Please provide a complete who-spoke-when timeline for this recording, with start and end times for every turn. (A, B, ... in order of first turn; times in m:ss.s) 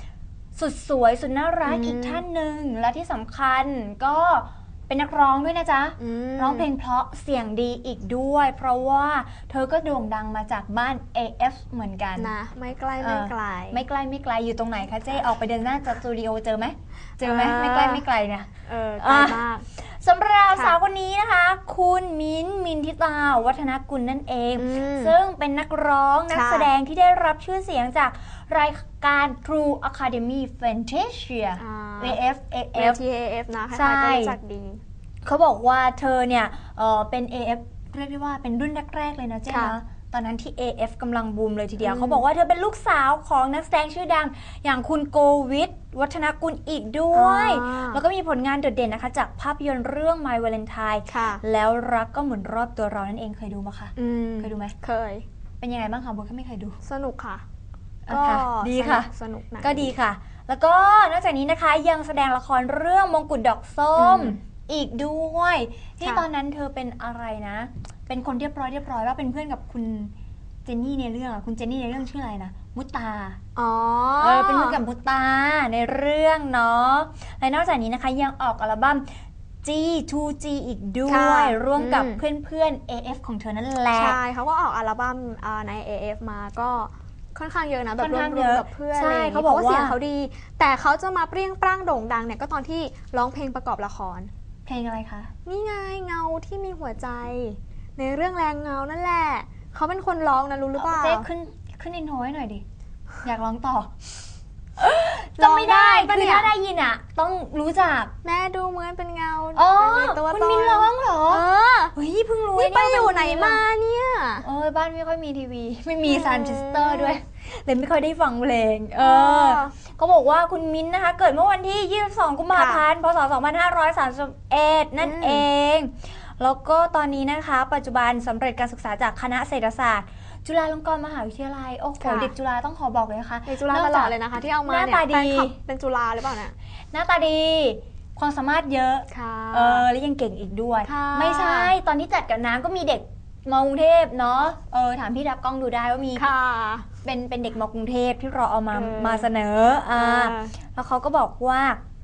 0:00.6-0:12.3 A
0:01.7-0:02.2 B
0:06.0-0:06.7 B
0:12.2-0:13.8 B
0:13.0-0:33.0 A
0:17.2-0:18.0 B
0:18.6-0:19.7 B
0:24.6-0:25.2 B
0:26.3-0:26.7 B
0:31.6-0:32.2 B
0:32.8-0:34.8 B
0:33.7-0:34.4 A
0:35.2-0:54.8 A
0:39.5-0:39.8 B
0:41.8-0:42.2 B
0:47.1-0:48.0 B
0:51.1-0:51.4 B
0:54.0-0:55.3 B
0:55.6-0:56.8 A
0:56.8-0:57.4 B
0:58.1-0:59.1 A
0:58.1-0:59.9 B
0:59.6-1:10.1 A
1:04.0-1:04.4 B
1:10.6-1:13.4 A
1:13.6-1:14.8 B
1:14.2-1:19.1 A
1:19.6-1:24.2 A
1:21.1-1:22.2 B
1:23.9-1:34.3 B
1:28.0-1:30.0 A
1:34.7-1:35.3 A
1:35.4-1:41.3 B
1:40.8-1:42.6 A
1:43.2-1:43.9 A
1:44.8-1:48.1 A
1:45.4-1:46.5 B
1:48.2-1:52.0 B
1:49.6-1:51.4 A
1:52.0-1:53.6 A
1:52.6-1:54.5 B
1:54.4-2:15.6 A
1:56.0-1:57.2 B
1:59.0-1:59.8 B
2:02.5-2:02.8 B
2:05.0-2:05.4 B
2:12.0-2:12.3 B
2:13.5-2:16.6 B
2:16.9-2:26.3 A
2:19.1-2:19.9 B
2:20.8-2:21.7 B
2:26.2-2:26.9 B
2:27.0-2:31.8 A
2:28.7-2:29.3 B
2:30.0-2:30.5 B